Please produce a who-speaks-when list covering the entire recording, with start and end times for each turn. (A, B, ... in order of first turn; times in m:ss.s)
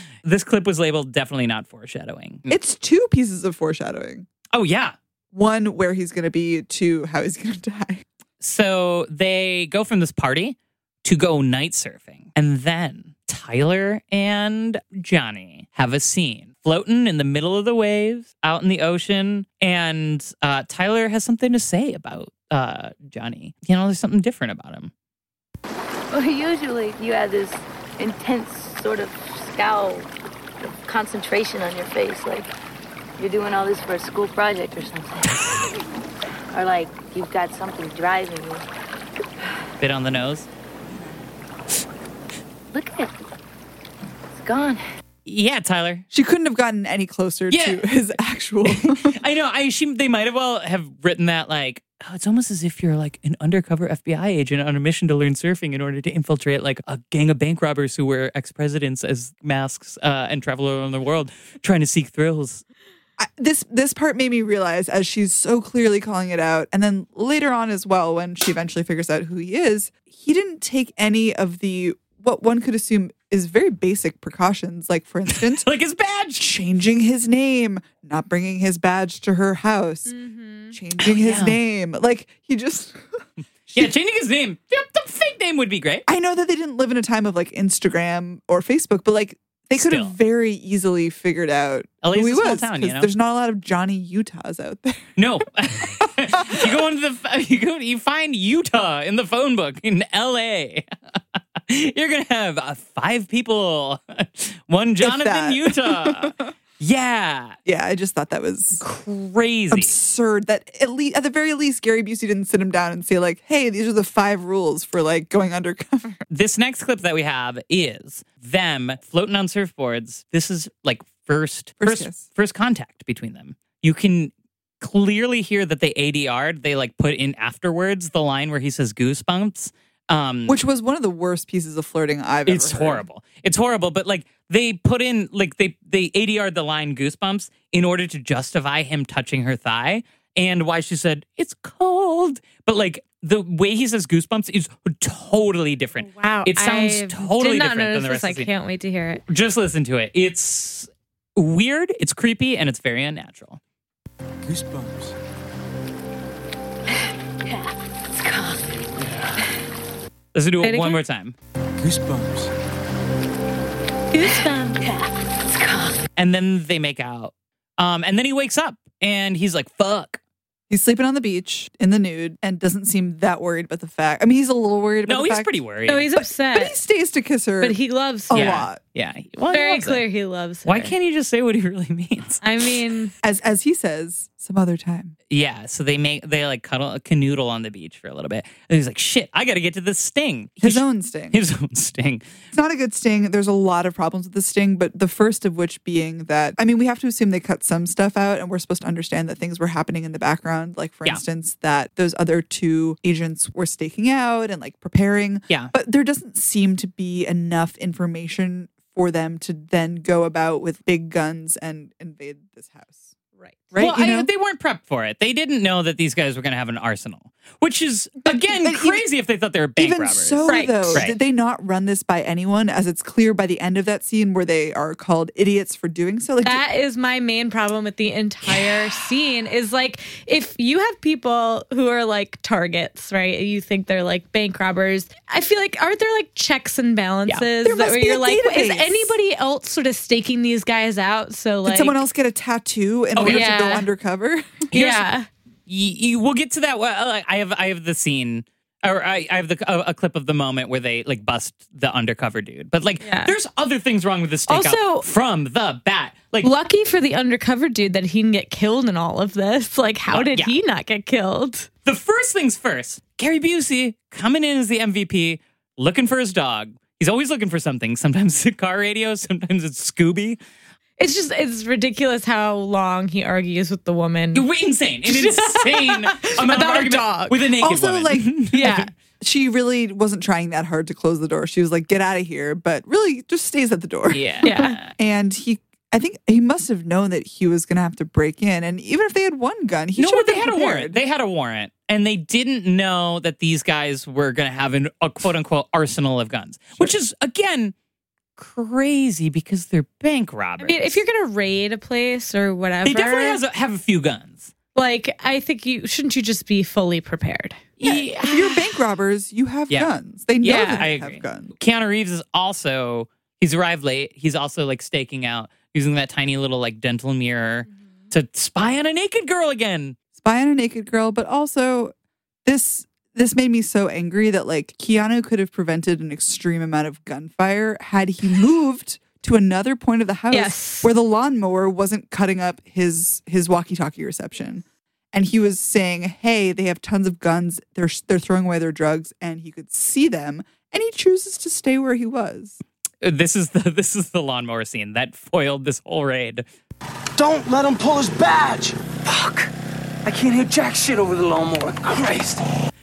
0:00.2-0:02.5 A
0:02.5-0:04.3 B
0:04.5-0:05.0 A
0:05.3-0:08.0 B
0:08.4-0:24.9 A
0:26.1-0:30.1 C
0:30.8-0:32.5 C
0:33.2-0:35.5 C
0:36.5-0:38.6 C
0:39.8-0:40.5 A
0:42.7-0:43.1 C
0:44.3-0:44.8 C
0:45.3-0:46.0 A
0:46.1-0:49.2 B
0:47.5-0:47.9 A
0:48.6-1:02.6 A
1:03.2-1:15.7 B
1:15.3-1:16.5 A
1:16.4-1:20.2 B
1:20.1-1:20.8 D
1:20.7-1:23.0 B
1:21.0-1:21.6 A
1:23.7-1:26.0 A
1:26.1-1:35.2 B
1:29.8-1:30.2 A
1:32.0-1:33.1 A
1:35.2-1:40.9 A
1:36.3-1:36.7 B
1:41.6-1:47.6 A
1:45.0-1:46.4 B
1:47.7-1:48.8 B
1:48.8-1:50.0 A
1:49.7-1:56.2 B
1:56.3-2:10.6 A
2:01.8-2:02.3 B
2:10.5-2:13.0 B
2:12.5-2:28.5 A
2:26.0-2:29.2 D
2:29.3-2:33.6 A
2:34.4-2:35.1 E
2:37.4-2:38.9 C
2:40.3-2:41.4 A
2:40.6-2:41.0 D
2:41.8-2:42.5 E
2:44.1-2:44.8 D
2:44.2-2:46.0 C
2:46.2-2:50.2 A
2:50.7-2:55.5 B
2:55.1-2:56.1 A
2:55.9-2:56.8 D
2:56.2-2:57.8 B
2:57.6-2:58.7 D
2:58.3-2:58.8 B
2:58.3-3:00.0 A
2:59.5-3:00.9 D
3:00.7-3:02.4 A
3:02.4-3:03.1 D
3:03.2-3:05.2 B
3:05.3-3:12.3 A
3:10.6-3:11.4 B
3:12.5-3:33.1 B
3:33.7-3:34.3 B
3:33.8-3:41.2 A
3:38.2-3:39.1 B
3:39.8-3:46.6 B
3:40.5-3:41.1 D
3:46.4-4:02.0 D
3:57.6-3:59.2 B
4:01.6-4:04.7 B
4:03.2-4:03.5 A
4:03.2-4:03.9 D
4:04.7-4:05.1 A
4:04.7-4:05.3 D
4:05.7-4:16.5 A
4:13.0-4:13.3 D
4:14.5-4:15.1 D
4:16.4-4:21.7 D
4:20.1-4:20.6 A
4:21.8-4:30.4 A
4:31.0-4:34.4 D
4:34.3-4:38.9 A
4:35.1-4:37.4 D
4:37.6-4:51.0 B
4:38.6-4:38.9 D
4:44.1-4:44.9 A
4:44.4-4:44.8 D
4:50.0-4:57.7 A
4:58.4-5:01.0 A
5:00.6-5:03.4 D
5:02.8-5:04.5 A
5:04.8-5:07.7 D
5:07.8-5:08.6 A
5:07.8-5:11.6 B
5:10.4-5:20.0 A
5:10.4-5:10.8 D
5:20.2-5:21.9 B
5:22.4-5:42.6 B
5:30.3-5:30.9 D
5:43.0-5:46.4 A
5:47.2-5:49.5 E
5:50.0-5:52.4 E